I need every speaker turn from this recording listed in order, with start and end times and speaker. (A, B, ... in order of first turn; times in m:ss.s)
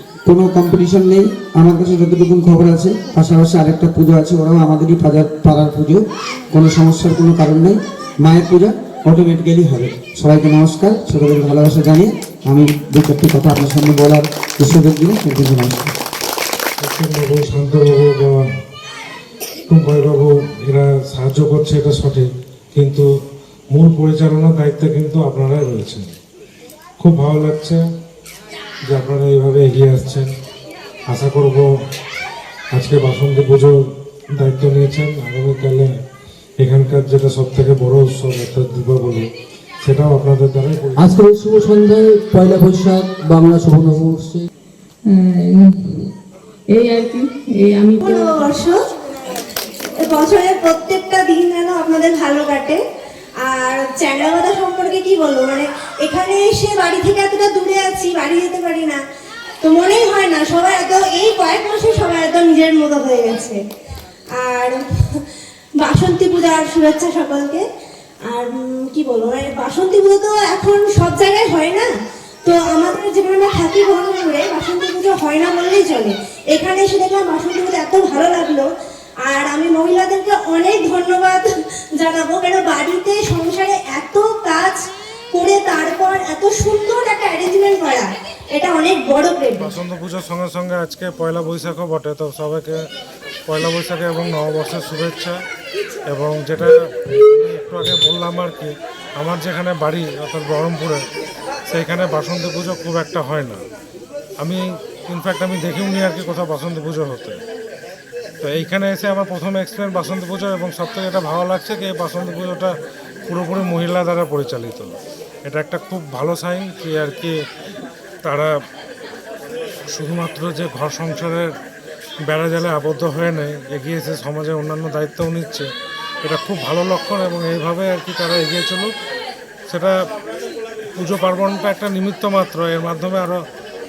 0:00.3-0:15.9 A
0:16.8-0:18.3 B
0:19.7-0:23.0 B
0:23.7-0:26.0 B
0:27.0-0:27.8 B
0:28.9-0:30.3 B
0:31.1-0:31.6 B
0:32.7-0:33.7 B
0:34.4-0:35.9 B
0:36.6-0:39.3 B
0:39.8-0:41.2 B
0:41.0-0:44.5 C
0:45.0-0:46.1 D
0:46.7-0:48.5 D
0:48.0-0:48.8 E
0:50.0-0:52.8 E
0:53.4-0:59.0 E
0:59.6-1:03.6 E
1:04.3-1:05.3 E
1:05.8-1:07.6 E
1:08.3-1:11.9 E
1:12.4-1:18.7 E
1:19.2-1:24.8 E
1:25.3-1:29.7 E
1:29.6-1:32.8 B
1:33.5-1:35.4 B
1:36.1-1:41.0 B
1:41.7-1:43.6 B
1:44.4-1:47.4 B
1:48.4-1:52.7 B
1:53.3-1:57.3 B
1:58.2-1:58.5 B
1:59.9-2:01.5 B
2:02.3-2:05.7 B
2:06.2-2:08.9 B
2:09.7-2:09.9 B
2:11.0-2:13.4 B